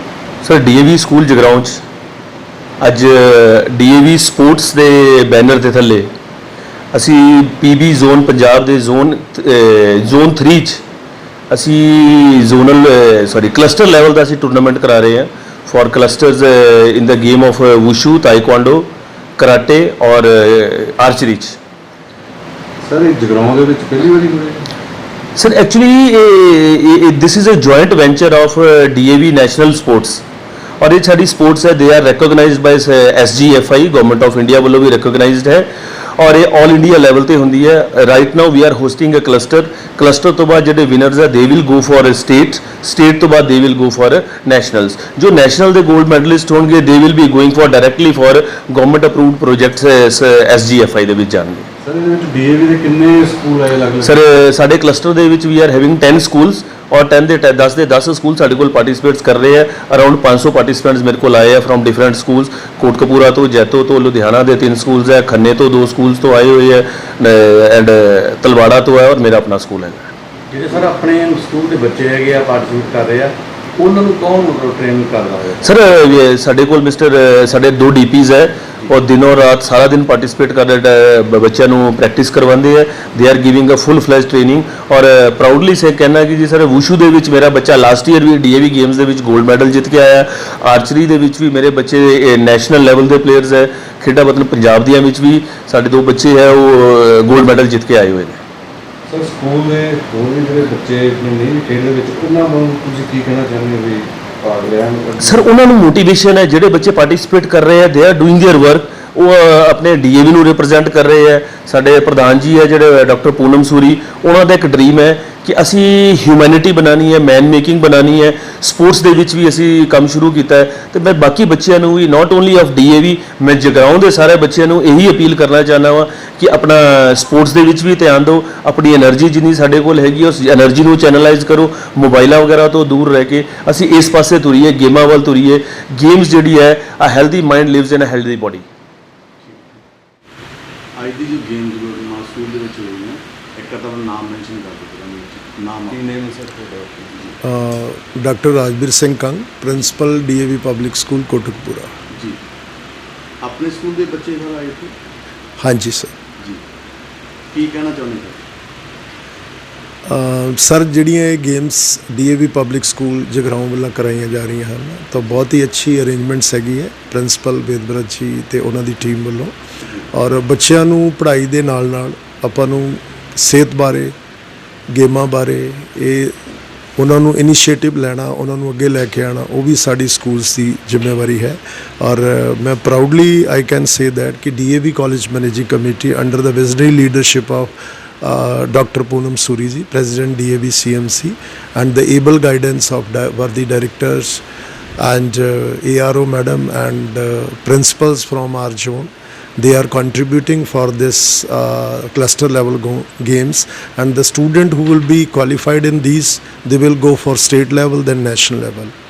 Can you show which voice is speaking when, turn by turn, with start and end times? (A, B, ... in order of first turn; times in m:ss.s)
0:00.4-0:01.8 A
0:02.8-0:06.1 A
0:06.9-0:10.8 A
0:11.5-0:21.6 A
0:22.8-0:24.7 B
0:25.4-0:30.2 A
0:30.8-0:51.7 A
0:51.8-0:54.1 B
0:54.0-1:10.1 A
1:10.5-1:15.6 C
1:15.6-1:38.4 A
1:39.1-1:45.5 B
1:45.2-2:18.7 A
2:21.0-2:26.0 C
2:25.9-2:27.2 B
2:27.4-2:31.9 D
2:32.1-2:32.4 C
2:33.4-2:35.0 C
2:35.6-2:36.1 D
2:37.5-2:38.4 C
2:40.1-2:49.6 D
2:50.1-2:54.1 D
2:54.9-2:56.4 D
2:57.0-3:14.4 D
3:15.0-3:28.9 D